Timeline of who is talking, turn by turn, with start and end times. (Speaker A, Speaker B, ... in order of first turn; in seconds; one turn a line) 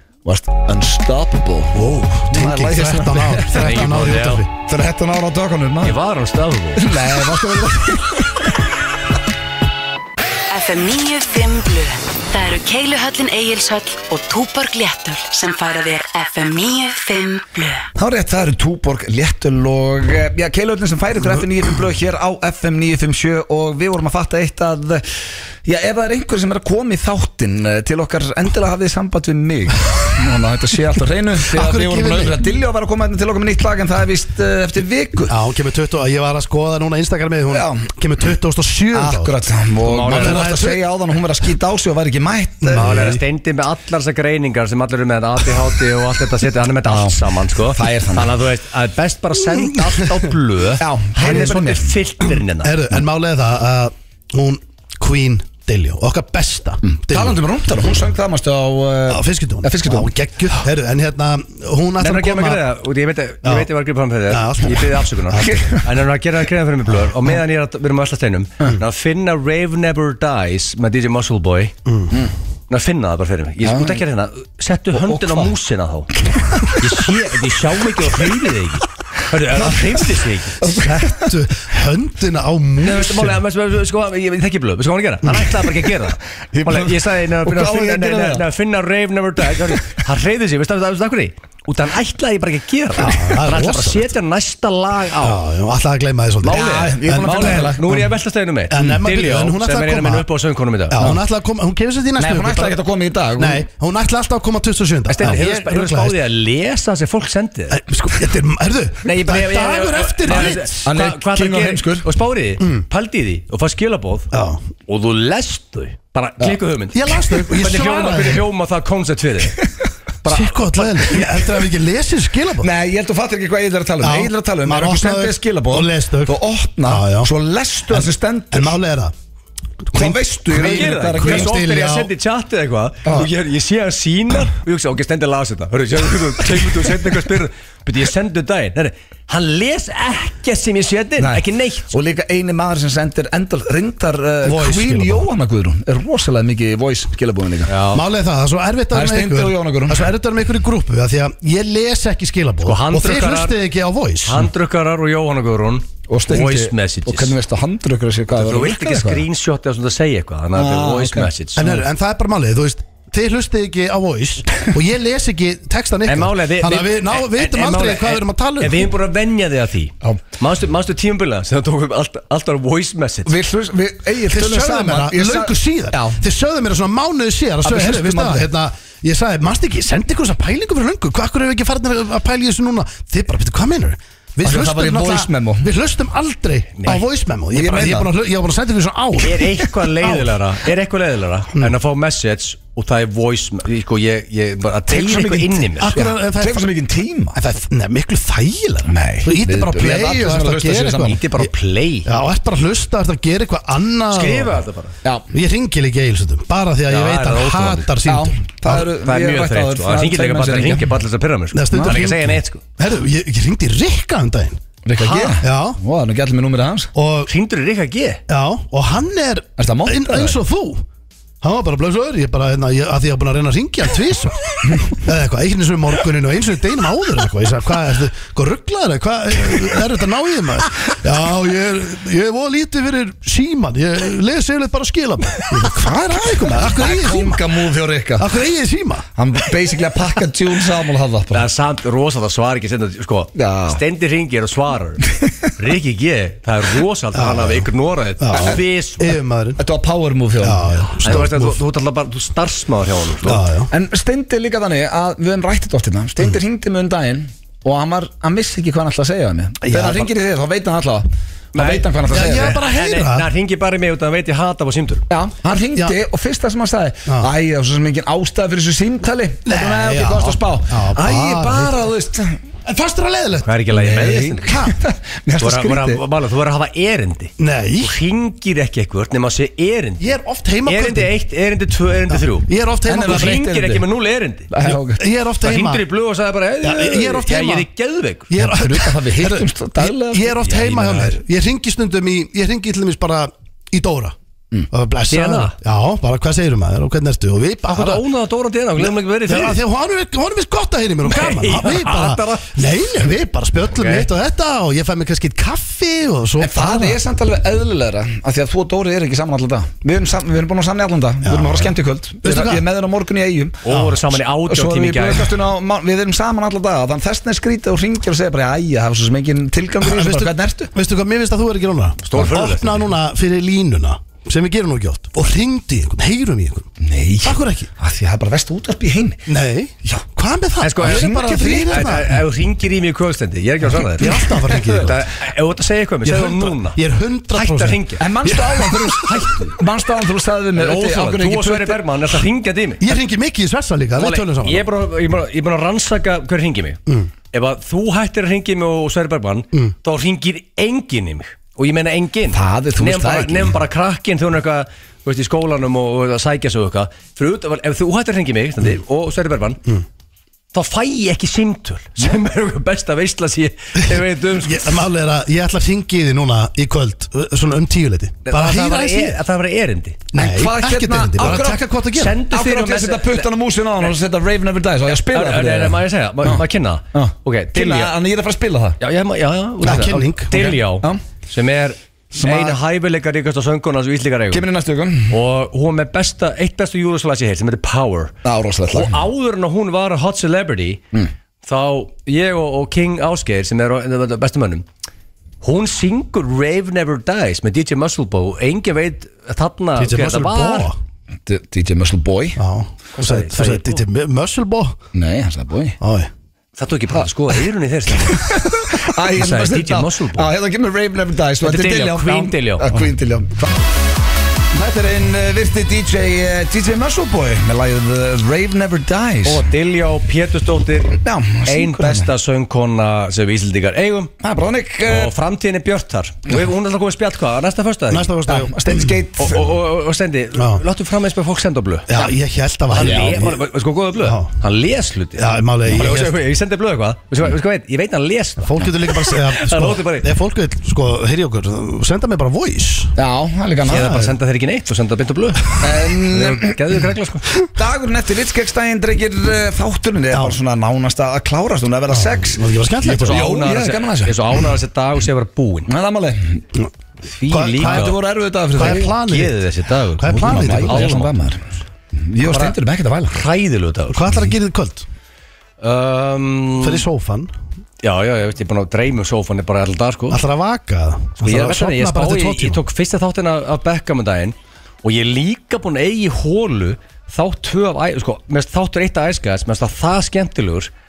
Speaker A: 0.2-3.9
Speaker B: 1.9-4.5
Speaker C: 3.5-4.4
Speaker A: 4.7-6.0
Speaker C: 5.8-6.9
Speaker A: 6.8-8.5
Speaker D: 10.5-17.9
Speaker A: 18.0-35.4
Speaker B: 31.5-32.4
Speaker B: 35.3-39.5
Speaker A: 37.5-37.9
Speaker A: 38.9-43.2
Speaker C: 39.8-40.5
Speaker B: 40.0-40.8
Speaker B: 42.6-43.2
Speaker C: 42.7-52.7
Speaker A: 46.9-48.4
Speaker A: 50.8-52.0
Speaker B: 52.6-57.4
Speaker A: 56.9-60.1
Speaker B: 59.1-62.6
Speaker C: 62.0-71.7
Speaker B: 63.4-63.7
Speaker B: 64.3-65.7
Speaker A: 65.4-65.8
Speaker B: 71.9-72.1
Speaker C: 72.7-80.6
Speaker A: 73.6-74.0
Speaker A: 74.9-75.5
Speaker A: 76.1-77.1
Speaker A: 77.8-78.1
Speaker A: 79.5-80.1
Speaker A: 80.6-81.4
Speaker B: 80.8-83.4
Speaker C: 82.8-95.4
Speaker B: 85.3-85.5
Speaker A: 86.5-88.5
Speaker B: 93.0-94.1
Speaker B: 95.2-98.0
Speaker A: 96.4-97.9
Speaker C: 96.5-101.1
Speaker B: 98.7-100.3
Speaker B: 100.9-102.8
Speaker A: 102.2-103.7
Speaker B: 103.4-106.2
Speaker C: 105.1-107.8
Speaker B: 107.7-110.9
Speaker C: 109.0-114.3
Speaker A: 110.3-112.1
Speaker B: 112.6-112.8
Speaker B: 114.3-114.6
Speaker C: 114.9-119.6
Speaker B: 116.9-118.5
Speaker C: 120.2-121.2
Speaker B: 120.3-122.7
Speaker A: 122.6-128.8
Speaker B: 124.0-127.3
Speaker B: 127.9-129.1
Speaker B: 129.9-132.1
Speaker A: 129.9-131.6
Speaker C: 130.6-141.9
Speaker A: 133.1-133.3
Speaker A: 141.2-147.7
Speaker B: 144.4-145.3
Speaker C: 147.7-148.0
Speaker B: 147.9-154.5
Speaker A: 148.9-150.1
Speaker C: 152.6-153.6
Speaker C: 154.2-157.3
Speaker A: 156.1-159.2
Speaker C: 158.3-161.7
Speaker A: 160.5-161.8
Speaker B: 161.6-168.9
Speaker C: 166.1-173.3
Speaker A: 173.3-176.2
Speaker B: 174.3-190.3
Speaker A: 177.6-178.5
Speaker A: 184.4-185.7
Speaker A: 187.5-188.1
Speaker C: 189.2-195.9
Speaker A: 194.9-197.4
Speaker B: 195.8-196.7
Speaker B: 197.3-201.5
Speaker A: 198.9-201.2
Speaker C: 201.0-202.1
Speaker B: 202.1-204.6
Speaker C: 204.1-204.9
Speaker B: 205.3-208.8
Speaker C: 206.9-207.9
Speaker A: 208.1-210.9
Speaker C: 209.0-212.6
Speaker B: 211.5-214.6
Speaker A: 211.7-212.0
Speaker A: 214.8-216.9
Speaker C: 215.0-215.4
Speaker B: 215.4-215.8
Speaker B: 216.9-217.3
Speaker C: 217.3-218.2
Speaker B: 218.3-220.8
Speaker A: 219.6-220.4
Speaker B: 221.4-237.4
Speaker A: 235.6-238.3
Speaker B: 238.2-239.1
Speaker A: 239.2-241.5
Speaker C: 241.3-249.2
Speaker A: 243.3-243.8
Speaker A: 245.1-245.5
Speaker B: 247.1-247.7
Speaker B: 248.2-249.6
Speaker A: 249.6-251.2
Speaker B: 250.4-251.6
Speaker C: 251.0-253.4
Speaker B: 253.2-253.7
Speaker A: 253.7-262.6
Speaker B: 259.6-260.1
Speaker C: 261.5-265.1
Speaker B: 262.1-263.3
Speaker A: 265.1-272.4
Speaker B: 269.5-271.8
Speaker B: 272.7-273.5
Speaker C: 273.4-274.5
Speaker A: 273.7-276.0
Speaker B: 274.4-274.7
Speaker C: 275.4-280.1
Speaker B: 277.4-278.0
Speaker B: 280.0-281.1
Speaker C: 280.7-282.5
Speaker B: 282.2-283.4
Speaker A: 282.9-283.9
Speaker C: 283.0-284.5
Speaker A: 284.5-285.0
Speaker B: 284.9-285.8
Speaker C: 285.4-288.3
Speaker B: 286.6-287.7
Speaker B: 288.3-294.1
Speaker A: 288.4-291.1
Speaker C: 290.5-291.1
Speaker B: 294.7-298.0
Speaker C: 295.1-295.5
Speaker C: 297.7-299.6
Speaker B: 298.8-307.0
Speaker C: 301.0-302.6
Speaker C: 303.7-304.1
Speaker A: 306.4-320.7
Speaker B: 311.2-312.6
Speaker C: 313.6-315.4
Speaker B: 319.8-326.7
Speaker C: 322.0-322.9
Speaker A: 326.8-329.2
Speaker B: 327.2-327.7
Speaker B: 329.3-332.2
Speaker C: 330.6-336.8
Speaker A: 330.8-332.0
Speaker B: 334.0-335.1
Speaker B: 336.1-339.1
Speaker C: 337.3-338.0
Speaker A: 338.0-341.9
Speaker C: 339.0-339.6
Speaker C: 340.5-343.0
Speaker B: 342.8-344.7
Speaker C: 344.0-346.8
Speaker C: 347.3-359.6
Speaker A: 352.3-353.6
Speaker C: 360.5-364.7
Speaker B: 364.4-369.2
Speaker C: 368.2-370.0
Speaker B: 370.1-372.2
Speaker A: 370.1-371.7
Speaker C: 371.9-373.3
Speaker A: 372.3-378.8
Speaker C: 374.9-377.9
Speaker C: 378.8-384.4
Speaker B: 379.6-380.4
Speaker A: 380.3-381.0
Speaker A: 382.1-382.6
Speaker A: 384.3-385.2
Speaker C: 385.1-388.1
Speaker A: 388.2-389.0
Speaker C: 388.7-390.8
Speaker C: 391.4-394.6
Speaker C: 395.4-400.7
Speaker B: 399.8-400.8
Speaker A: 401.3-402.4
Speaker B: 402.4-404.8
Speaker C: 402.9-403.8
Speaker A: 404.9-405.8
Speaker B: 405.8-406.1
Speaker C: 406.6-408.3
Speaker A: 407.9-413.6
Speaker C: 409.1-410.3
Speaker C: 411.4-412.7
Speaker A: 414.5-419.5
Speaker C: 419.2-424.1
Speaker A: 420.9-422.1
Speaker A: 424.2-425.1
Speaker C: 424.8-428.1
Speaker B: 427.9-429.0
Speaker A: 428.3-429.6
Speaker C: 429.2-431.9
Speaker B: 430.4-430.6
Speaker B: 431.9-433.4
Speaker C: 432.7-440.1
Speaker A: 432.7-433.2
Speaker B: 434.0-434.3
Speaker B: 435.2-436.2
Speaker B: 438.4-442.9
Speaker A: 443.0-444.0
Speaker C: 443.6-447.3
Speaker B: 443.7-444.1
Speaker A: 445.6-446.6
Speaker A: 447.5-454.2
Speaker B: 450.1-450.4
Speaker B: 451.9-453.3
Speaker C: 452.9-455.7
Speaker A: 455.7-456.4
Speaker C: 457.1-457.9
Speaker B: 457.3-457.9
Speaker A: 457.5-458.9
Speaker B: 458.5-459.4
Speaker C: 458.6-461.2
Speaker B: 460.0-460.9
Speaker A: 460.1-463.2
Speaker C: 462.2-462.6
Speaker C: 463.1-464.1
Speaker B: 463.9-464.9
Speaker C: 465.6-466.9
Speaker B: 466.6-467.3
Speaker C: 467.8-470.2
Speaker B: 470.1-472.6
Speaker C: 471.2-480.7